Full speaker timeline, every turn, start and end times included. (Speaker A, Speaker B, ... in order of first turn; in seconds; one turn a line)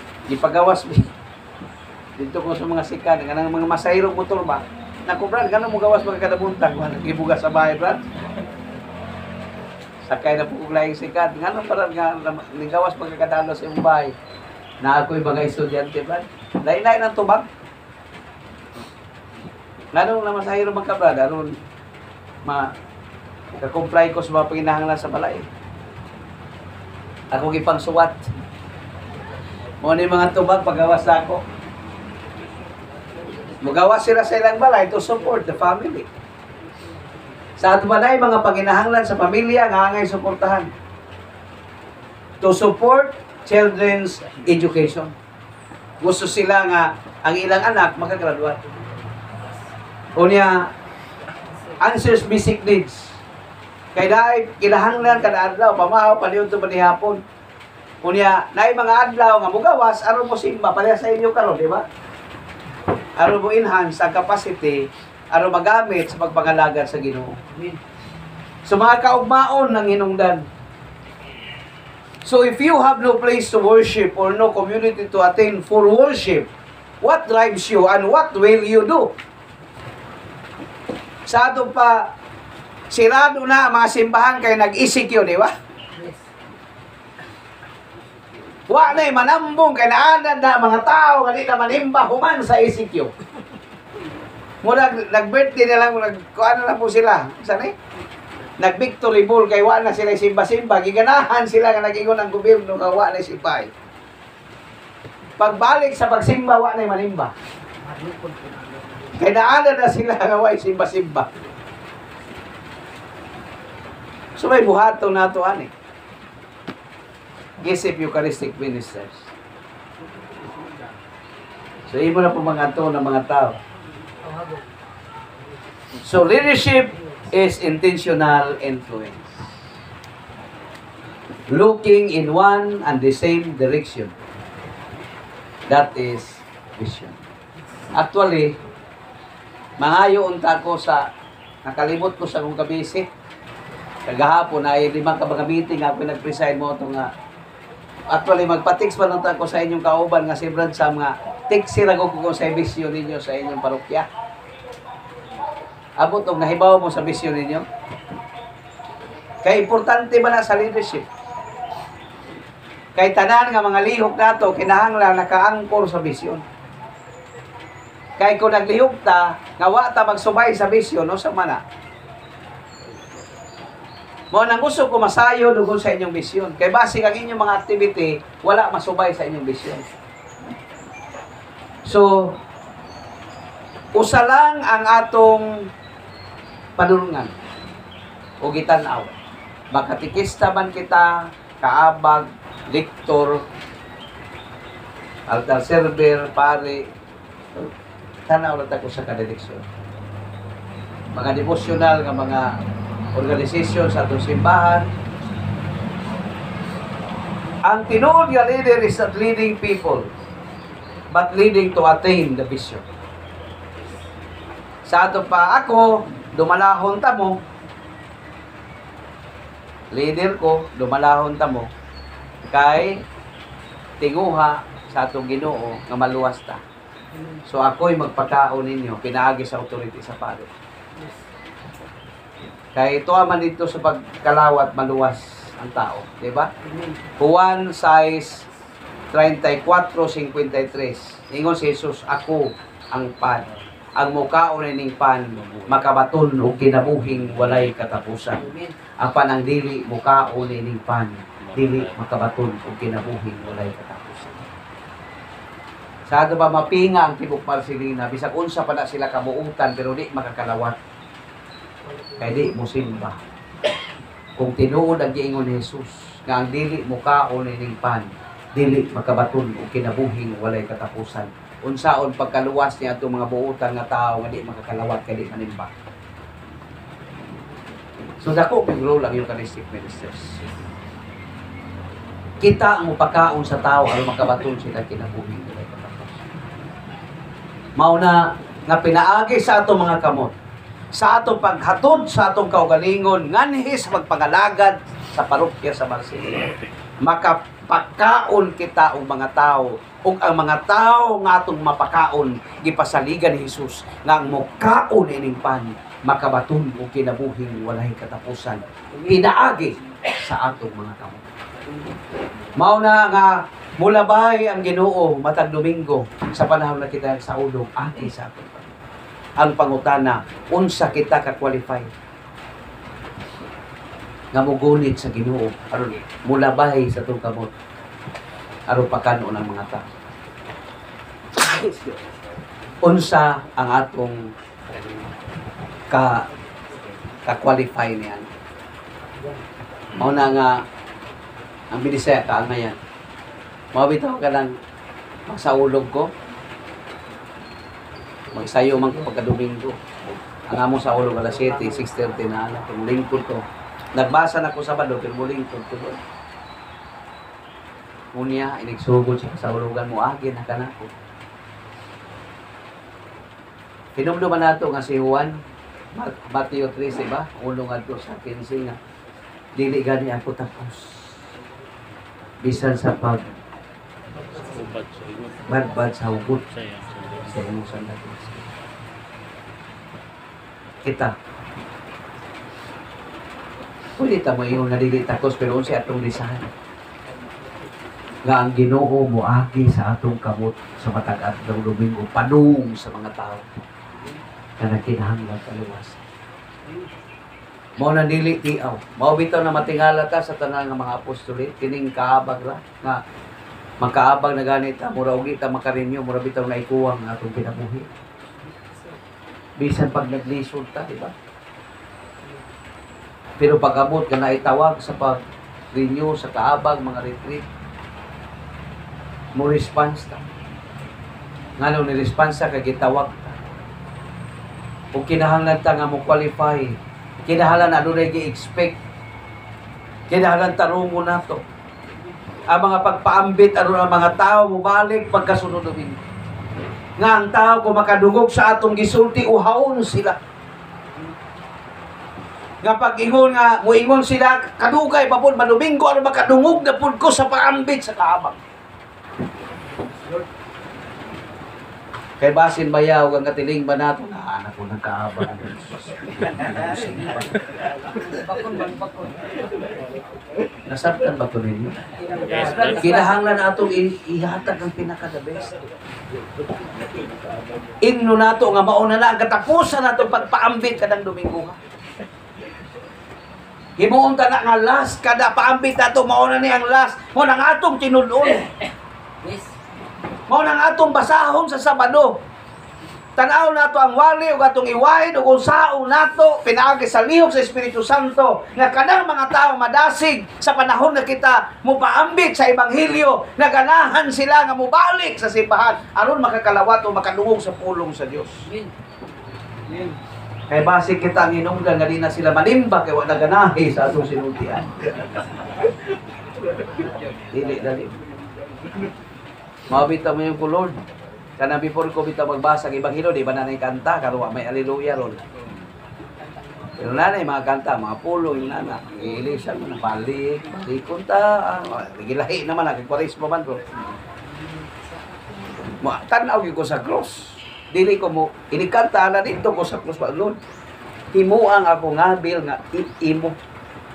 Speaker A: 0.3-1.1
Speaker A: 2.2-8.0
Speaker A: 10.0-14.1
Speaker A: 14.8-17.5
Speaker A: 19.9-21.6
Speaker A: 22.4-22.7
Speaker A: 23.6-25.5
Speaker A: 27.3-28.3
Speaker A: 29.8-31.4
Speaker A: 33.6-36.1
Speaker A: 37.6-40.7
Speaker A: 42.4-45.1
Speaker A: 46.0-48.6
Speaker A: 50.1-50.7
Speaker A: 51.8-53.2
Speaker A: 53.9-57.2
Speaker A: 58.0-61.9
Speaker A: 63.2-67.4
Speaker B: 67.5-67.8
Speaker A: 68.7-70.5
Speaker A: 72.2-76.5
Speaker A: 77.0-79.1
Speaker A: 81.2-82.1
Speaker A: 82.9-85.5
Speaker B: 85.9-86.2
Speaker A: 88.7-93.1
Speaker A: 94.6-97.7
Speaker A: 98.6-103.7
Speaker A: 105.4-107.3
Speaker B: 107.8-109.3
Speaker A: 109.2-111.3
Speaker A: 114.4-115.7
Speaker A: 117.6-119.3
Speaker B: 120.4-120.8
Speaker A: 121.9-123.6
Speaker B: 124.2-124.7
Speaker A: 126.0-129.5
Speaker B: 126.9-127.3
Speaker A: 131.5-134.1
Speaker A: 135.7-137.2
Speaker A: 137.9-138.6
Speaker A: 139.8-141.1
Speaker A: 141.6-143.1
Speaker A: 144.1-147.1
Speaker A: 148.1-154.1
Speaker A: 156.0-157.7
Speaker A: 159.4-161.1
Speaker A: 162.9-166.4
Speaker A: 168.2-171.6
Speaker A: 174.3-179.9
Speaker A: 181.8-182.4
Speaker A: 183.9-185.7
Speaker A: 186.8-187.3
Speaker A: 188.4-189.2
Speaker A: 189.7-193.4
Speaker A: 195.3-196.9
Speaker A: 198.3-199.6
Speaker A: 201.1-202.6
Speaker A: 203.1-204.9
Speaker A: 207.7-210.1
Speaker A: 211.1-212.8
Speaker A: 214.8-217.4
Speaker A: 219.9-221.7
Speaker A: 222.5-223.0
Speaker A: 224.0-226.6
Speaker B: 227.1-227.4
Speaker A: 227.5-230.5
Speaker A: 232.7-236.5
Speaker B: 236.6-237.0
Speaker A: 237.2-238.5
Speaker A: 239.1-248.4
Speaker B: 248.3-248.8
Speaker A: 249.0-254.4
Speaker C: 251.4-251.9
Speaker A: 256.1-260.8
Speaker A: 262.2-263.2
Speaker A: 264.4-275.7
Speaker A: 278.2-280.4
Speaker A: 282.4-286.1
Speaker A: 287.8-290.4
Speaker A: 290.9-311.3
Speaker B: 308.9-309.5
Speaker A: 312.6-318.6
Speaker A: 319.4-321.9
Speaker A: 324.3-327.5
Speaker A: 328.7-329.9
Speaker A: 331.4-332.0
Speaker A: 332.8-334.3
Speaker A: 335.9-336.3
Speaker A: 337.2-338.3
Speaker A: 340.0-340.6
Speaker A: 341.7-342.8
Speaker A: 343.7-344.5
Speaker A: 345.3-346.1
Speaker A: 348.3-356.0
Speaker A: 358.1-360.9
Speaker A: 364.0-365.4
Speaker A: 365.9-368.8
Speaker A: 369.6-371.1
Speaker A: 372.4-373.2
Speaker C: 374.4-375.5
Speaker A: 375.5-376.4
Speaker C: 376.3-377.4
Speaker A: 377.2-378.4
Speaker A: 380.8-381.1
Speaker A: 384.0-386.5
Speaker A: 388.2-393.5
Speaker A: 394.6-396.0
Speaker A: 397.8-403.0
Speaker A: 403.8-407.9
Speaker A: 409.6-411.1
Speaker A: 413.4-415.2
Speaker A: 415.7-417.4
Speaker A: 419.4-420.2
Speaker A: 421.6-423.4
Speaker A: 424.9-428.8
Speaker A: 430.1-431.4
Speaker A: 432.5-436.0
Speaker A: 437.0-440.2
Speaker A: 442.6-448.4
Speaker A: 452.2-457.4
Speaker B: 457.8-459.5
Speaker A: 460.7-461.7
Speaker B: 462.0-463.3
Speaker C: 462.3-462.7
Speaker A: 462.3-465.5
Speaker A: 467.8-471.6
Speaker A: 473.8-478.5
Speaker B: 479.2-479.5
Speaker A: 480.3-482.2
Speaker A: 483.1-498.5
Speaker B: 498.4-498.7
Speaker A: 500.5-504.8
Speaker A: 507.3-508.0
Speaker A: 509.7-510.8
Speaker A: 511.4-515.2
Speaker A: 516.8-523.7
Speaker B: 524.2-525.6
Speaker A: 525.8-530.4
Speaker A: 531.1-533.4